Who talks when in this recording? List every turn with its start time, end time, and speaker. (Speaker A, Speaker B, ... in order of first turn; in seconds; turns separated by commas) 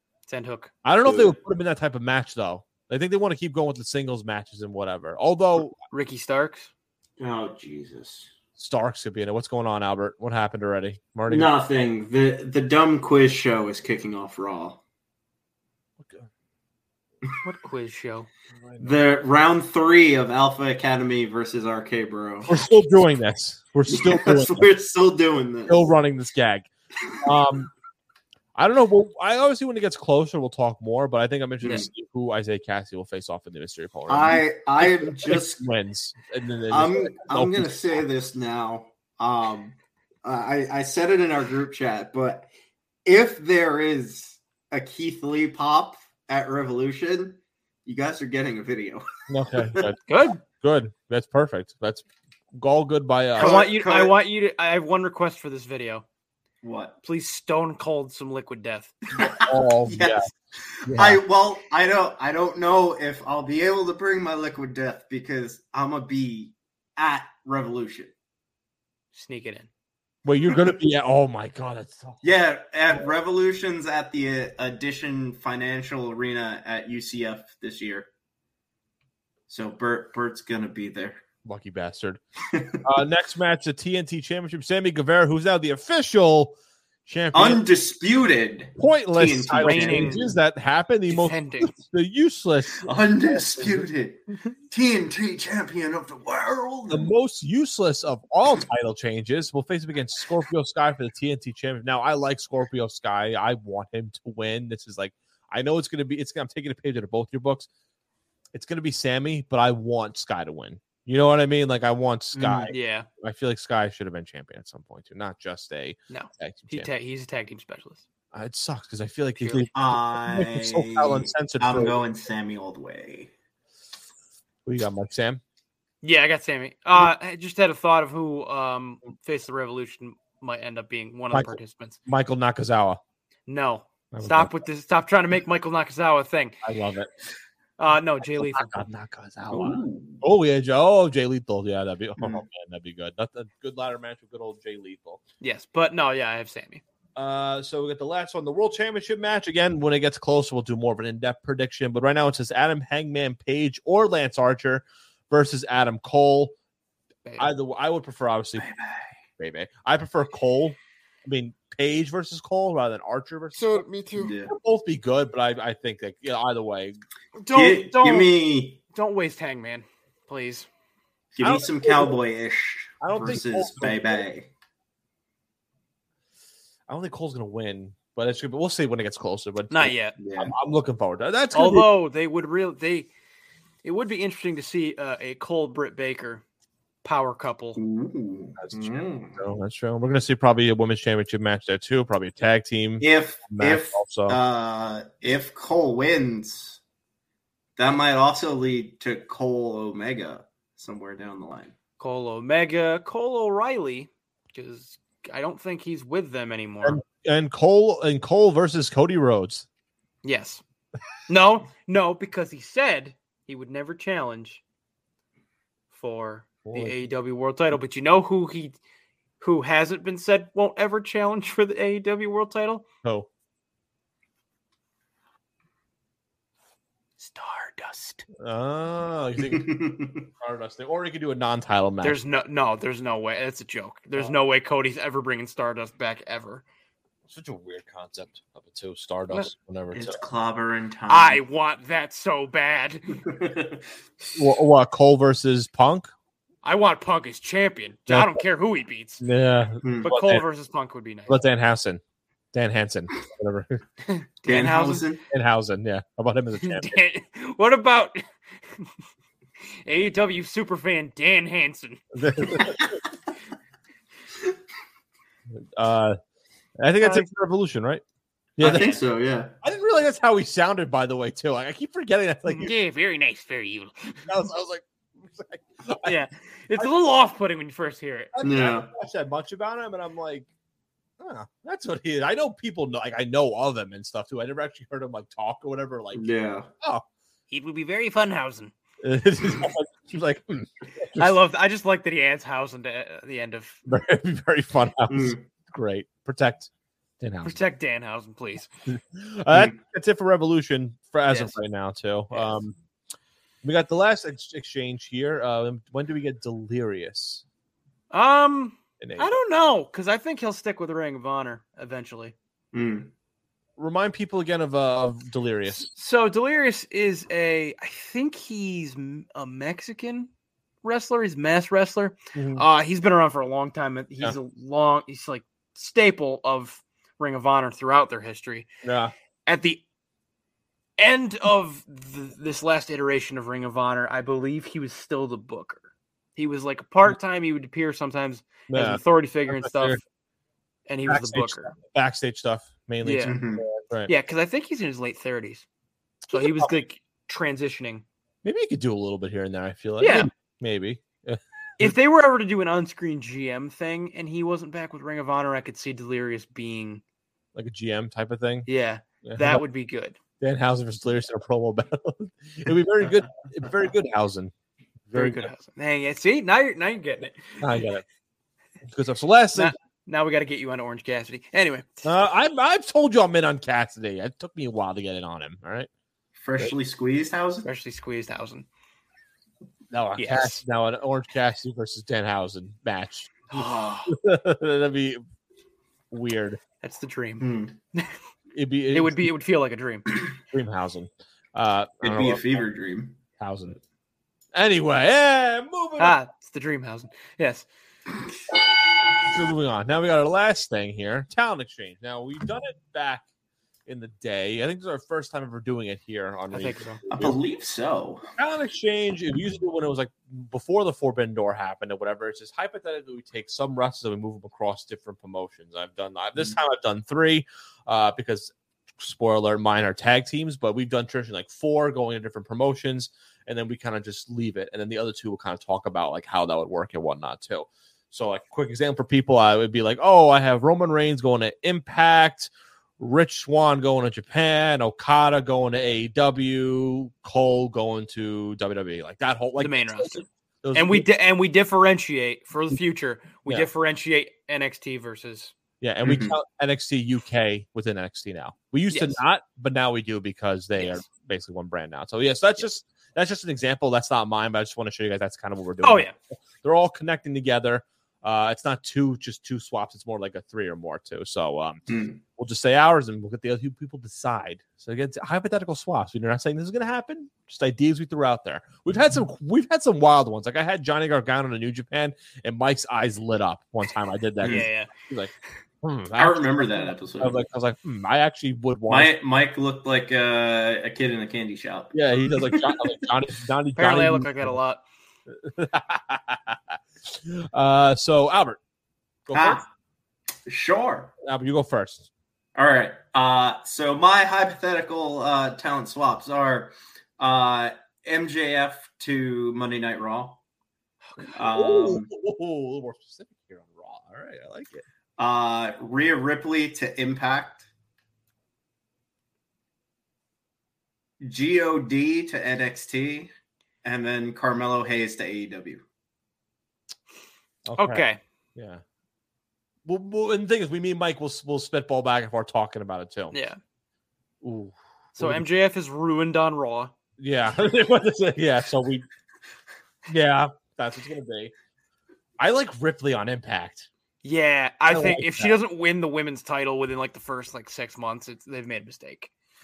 Speaker A: 0.3-0.7, Speaker B: 0.8-5.8, Speaker C: 1.0-1.4, Speaker A: 5.9-6.7, Speaker C: 7.2-8.3, Speaker B: 8.6-11.5, Speaker C: 11.3-14.8, Speaker B: 16.0-16.3, Speaker A: 17.4-18.3, Speaker B: 18.5-19.0, Speaker C: 18.8-22.6, Speaker B: 22.5-24.7, Speaker C: 23.9-25.8, Speaker B: 25.7-26.7, Speaker B: 27.2-27.7, Speaker B: 28.5-38.0, Speaker C: 31.6-31.9, Speaker C: 34.1-35.6, Speaker C: 36.7-42.5, Speaker C: 43.0-49.9, Speaker B: 49.3-53.6, Speaker A: 50.1-50.4, Speaker C: 53.4-54.2, Speaker A: 53.4-56.0, Speaker C: 56.6-57.0, Speaker A: 57.0-58.9, Speaker C: 59.1-68.1, Speaker B: 59.1-60.2, Speaker B: 60.8-61.2, Speaker A: 69.1-69.7, Speaker B: 70.2-72.3, Speaker C: 72.2-78.1, Speaker C: 79.5-81.2, Speaker B: 81.4-82.2, Speaker C: 82.5-82.8, Speaker B: 82.8-86.5, Speaker B: 87.0-87.6, Speaker C: 87.3-90.3, Speaker B: 88.8-93.9, Speaker A: 89.6-90.2, Speaker A: 91.1-91.8, Speaker C: 92.8-97.1, Speaker B: 96.9-107.7, Speaker B: 108.5-116.9, Speaker C: 112.3-112.7, Speaker A: 112.7-113.1, Speaker A: 116.1-118.0, Speaker B: 118.3-122.0, Speaker A: 119.4-119.7, Speaker C: 119.7-123.3, Speaker B: 124.7-125.4, Speaker A: 126.0-132.0, Speaker B: 131.3-133.0, Speaker A: 133.5-136.6, Speaker B: 134.1-134.5, Speaker B: 136.6-137.1, Speaker A: 137.8-138.7, Speaker B: 138.2-145.2, Speaker C: 139.5-140.2, Speaker C: 142.2-142.4, Speaker A: 145.4-146.8, Speaker B: 147.2-156.5, Speaker A: 157.2-157.5, Speaker B: 157.4-158.7, Speaker C: 158.6-159.1, Speaker B: 159.4-167.0, Speaker C: 164.1-164.5, Speaker A: 167.3-168.3, Speaker C: 167.5-168.8, Speaker A: 168.9-170.7, Speaker C: 171.3-174.5, Speaker B: 171.4-172.2, Speaker B: 173.0-174.2, Speaker B: 176.9-181.9, Speaker A: 179.7-180.1, Speaker C: 180.2-180.5, Speaker A: 181.5-183.1, Speaker A: 183.8-186.4, Speaker A: 187.0-187.8, Speaker C: 187.8-189.4, Speaker B: 188.6-194.4, Speaker C: 193.0-196.8, Speaker C: 197.8-201.7, Speaker A: 202.0-207.0, Speaker B: 206.8-209.7, Speaker A: 210.2-210.6, Speaker A: 211.3-214.6, Speaker A: 215.9-218.8, Speaker B: 216.6-216.9, Speaker A: 219.4-222.8, Speaker B: 223.0-223.3, Speaker A: 227.2-228.2, Speaker B: 228.4-229.7, Speaker C: 229.4-230.2, Speaker B: 230.3-232.2, Speaker A: 232.0-236.6, Speaker B: 237.3-240.2, Speaker C: 239.9-241.4, Speaker A: 241.1-243.2, Speaker C: 243.2-243.8, Speaker B: 244.3-246.1, Speaker A: 246.6-249.2, Speaker B: 248.1-248.4, Speaker B: 249.2-250.4, Speaker C: 249.8-250.1, Speaker A: 250.0-251.4, Speaker B: 251.3-252.0, Speaker B: 252.5-253.8, Speaker A: 254.1-255.1, Speaker C: 254.4-255.2, Speaker B: 255.3-257.0, Speaker A: 256.6-258.2, Speaker A: 259.8-262.0, Speaker B: 262.1-263.0, Speaker B: 265.5-266.2, Speaker B: 266.8-268.0, Speaker A: 267.0-267.3, Speaker B: 268.6-269.0, Speaker C: 268.6-269.5, Speaker B: 269.6-272.7, Speaker A: 272.4-274.3, Speaker B: 274.2-276.1, Speaker A: 276.0-278.3, Speaker B: 278.3-280.5, Speaker C: 278.4-278.9, Speaker B: 281.2-286.2, Speaker C: 286.1-286.7, Speaker A: 287.5-288.7, Speaker B: 289.0-291.3, Speaker A: 291.1-293.8, Speaker B: 293.9-297.6, Speaker C: 295.1-295.4, Speaker A: 297.4-298.7, Speaker B: 298.9-302.7, Speaker A: 301.3-301.6, Speaker A: 302.3-302.6, Speaker B: 303.6-307.4, Speaker A: 308.1-312.3, Speaker B: 309.0-309.3, Speaker C: 312.7-313.1, Speaker B: 313.8-315.9, Speaker A: 315.7-320.3, Speaker A: 320.8-328.7, Speaker B: 322.3-322.6, Speaker B: 328.8-329.1, Speaker A: 329.4-329.8, Speaker A: 331.0-335.8, Speaker A: 336.4-340.0, Speaker B: 338.7-340.0, Speaker A: 340.9-341.7, Speaker B: 341.1-344.1, Speaker A: 343.0-343.4, Speaker C: 343.2-343.6, Speaker A: 344.1-345.6, Speaker B: 346.3-346.7, Speaker A: 346.3-348.0, Speaker B: 348.4-351.9, Speaker A: 350.0-350.3, Speaker A: 351.8-357.0, Speaker B: 357.5-358.7, Speaker A: 358.7-360.2, Speaker B: 359.2-359.6, Speaker B: 360.4-364.5, Speaker B: 365.1-365.5, Speaker A: 365.1-367.6, Speaker B: 367.6-368.0, Speaker B: 368.9-369.7, Speaker A: 369.5-372.1, Speaker B: 372.0-375.9, Speaker C: 376.4-377.7, Speaker A: 377.6-378.7, Speaker B: 379.9-383.6, Speaker A: 380.1-380.6, Speaker A: 383.5-384.1, Speaker B: 384.1-385.2, Speaker B: 386.1-386.6, Speaker A: 386.8-388.1, Speaker C: 387.4-387.7, Speaker B: 388.5-389.3, Speaker A: 388.9-390.1, Speaker B: 390.5-392.6, Speaker C: 392.0-393.2, Speaker B: 393.4-393.8, Speaker B: 394.5-396.2, Speaker A: 396.0-397.6, Speaker B: 399.2-403.2, Speaker B: 403.9-407.4, Speaker A: 406.5-407.0, Speaker C: 407.1-408.3, Speaker B: 408.4-441.1, Speaker A: 439.6-445.5, Speaker B: 445.8-475.3, Speaker C: 446.0-446.4, Speaker A: 448.9-449.2, Speaker A: 450.8-451.0, Speaker A: 455.8-456.1, Speaker C: 461.9-462.2, Speaker C: 474.4-474.7, Speaker A: 474.4-474.9, Speaker B: 475.8-479.1, Speaker C: 476.2-477.4, Speaker C: 478.9-482.9, Speaker B: 481.9-484.6, Speaker A: 483.8-484.8, Speaker B: 485.3-488.6, Speaker B: 489.3-489.6, Speaker C: 489.3-489.6, Speaker C: 490.4-491.1, Speaker B: 491.2-492.1, Speaker C: 492.5-500.4, Speaker A: 501.1-501.3, Speaker C: 501.3-502.1, Speaker B: 501.5-504.8, Speaker C: 505.2-507.7, Speaker C: 511.2-513.3, Speaker C: 513.8-515.8, Speaker B: 517.6-518.8, Speaker A: 517.8-518.2, Speaker B: 519.9-523.3, Speaker A: 523.3-523.6, Speaker B: 524.4-525.4, Speaker A: 525.1-526.9, Speaker B: 527.2-529.0, Speaker B: 530.1-531.5, Speaker B: 532.4-533.9, Speaker A: 534.2-539.3, Speaker B: 534.9-535.5